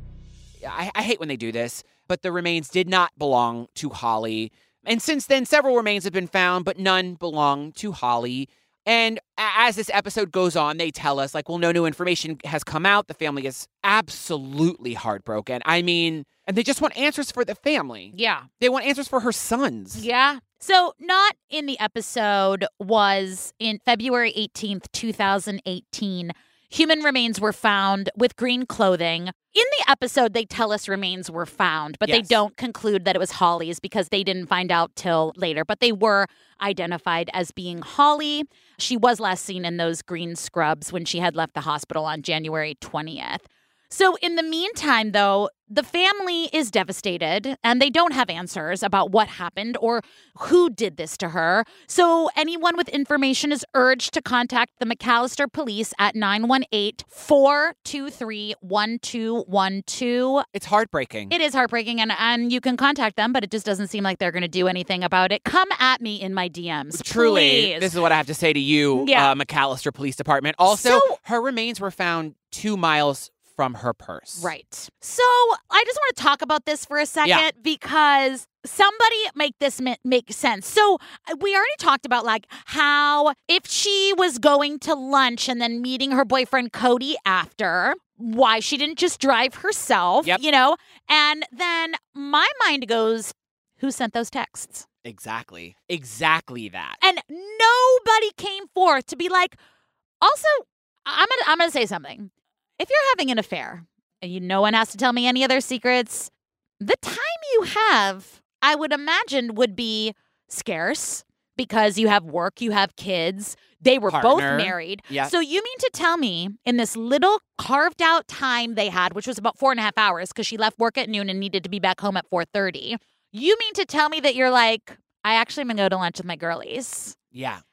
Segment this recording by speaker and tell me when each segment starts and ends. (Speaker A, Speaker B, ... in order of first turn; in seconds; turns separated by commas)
Speaker A: 0.6-20.1, Speaker B: 18.1-18.4, Speaker B: 19.9-60.4, Speaker A: 32.1-32.3, Speaker A: 60.5-61.3, Speaker B: 61.3-67.9, Speaker A: 66.9-74.5, Speaker B: 68.9-69.3, Speaker B: 70.7-71.2, Speaker B: 74.4-94.8, Speaker A: 95.0-97.0, Speaker B: 97.0-99.6, Speaker B: 100.2-127.2, Speaker A: 114.1-115.3, Speaker A: 127.3-127.6